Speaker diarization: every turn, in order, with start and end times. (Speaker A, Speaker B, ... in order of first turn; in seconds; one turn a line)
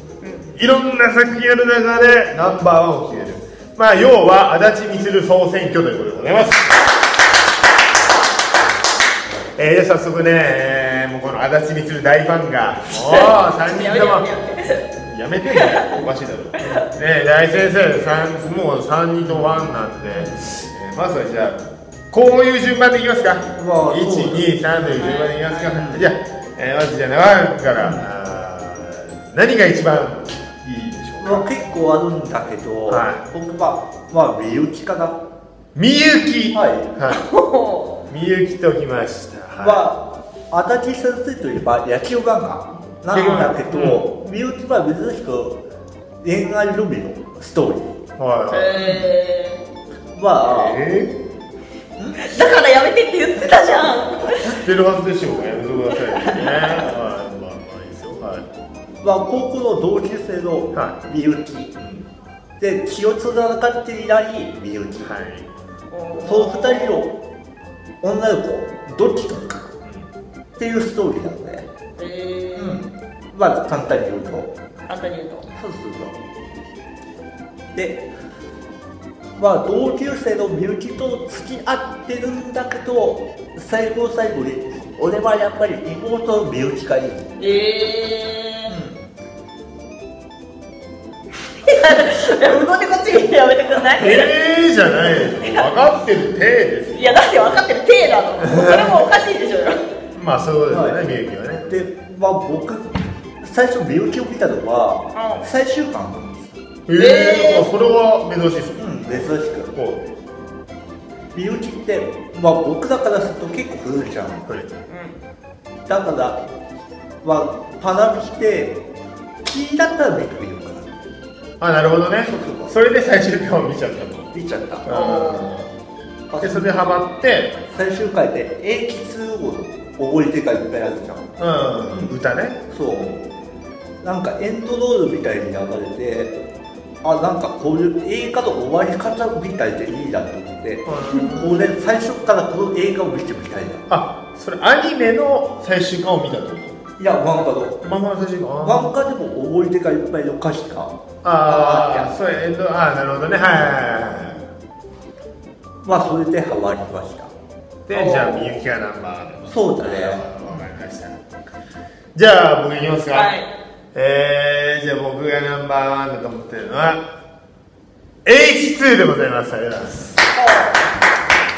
Speaker A: 0.2-0.5
Speaker B: 0.6-6.7
Speaker B: 9.5-14.3
Speaker A: 12.9-14.9
Speaker B: 15.0-31.5
Speaker A: 15.5-15.9
Speaker C: 19.6-20.4
Speaker C: 23.6-24.7
Speaker A: 25.0-25.8
Speaker C: 25.7-26.1
Speaker C: 27.8-28.1
Speaker C: 31.2-35.2
Speaker B: 32.9-33.2
Speaker B: 35.7-37.2
Speaker C: 36.5-36.9
Speaker A: 37.1-38.0
Speaker B: 38.1-39.8
Speaker C: 39.6-45.6
Speaker B: 43.1-44.0
Speaker C: 46.2-48.0
Speaker B: 48.2-49.0
Speaker A: 48.5-49.6
Speaker C: 48.8-49.0
Speaker C: 50.1-50.8
Speaker B: 50.4-51.2
Speaker C: 52.0-52.3
Speaker A: 52.2-54.6
Speaker B: 54.4-58.4
Speaker A: 55.9-56.8
Speaker C: 59.0-62.0
Speaker B: 60.7-61.0
Speaker C: 62.6-65.1
Speaker B: 65.0-65.5
Speaker A: 65.9-67.0
Speaker C: 66.2-67.1
Speaker C: 68.0-69.8
Speaker C: 70.6-71.7
Speaker A: 72.0-72.8
Speaker C: 72.5-74.5
Speaker A: 74.8-75.5
Speaker C: 75.5-76.2
Speaker C: 77.7-78.1
Speaker C: 79.3-87.3
Speaker A: 87.4-88.8
Speaker C: 88.7-89.0
Speaker A: 91.6-94.3
Speaker B: 94.0-97.6
Speaker A: 94.8-95.7
Speaker A: 96.9-99.8
Speaker B: 98.4-99.0
Speaker B: 100.1-101.7
Speaker C: 100.7-101.0
Speaker C: 101.7-106.5
Speaker A: 105.1-105.5
Speaker B: 106.9-110.0
Speaker A: 107.0-107.7
Speaker C: 108.8-109.7
Speaker C: 111.3-114.5
Speaker A: 114.9-115.2
Speaker C: 115.9-116.4
Speaker C: 117.2-118.8
Speaker C: 119.4-120.9
Speaker B: 121.6-125.7
Speaker C: 122.2-122.8
Speaker C: 124.3-124.9
Speaker A: 124.9-125.5
Speaker C: 126.3-126.8
Speaker B: 126.4-127.6
Speaker C: 127.7-131.3
Speaker B: 131.4-132.6
Speaker C: 131.8-132.1
Speaker C: 132.7-133.2
Speaker C: 134.0-136.3
Speaker C: 137.0-143.8
Speaker B: 140.8-141.6
Speaker B: 143.9-146.8
Speaker C: 147.0-147.8
Speaker B: 147.8-148.9
Speaker C: 148.6-152.2
Speaker B: 151.2-154.4
Speaker C: 155.8-157.3
Speaker B: 157.9-161.2
Speaker A: 157.9-158.6
Speaker C: 159.5-160.3
Speaker B: 162.1-163.3
Speaker A: 163.1-163.5
Speaker B: 163.9-167.0
Speaker B: 168.2-170.2
Speaker A: 170.3-170.8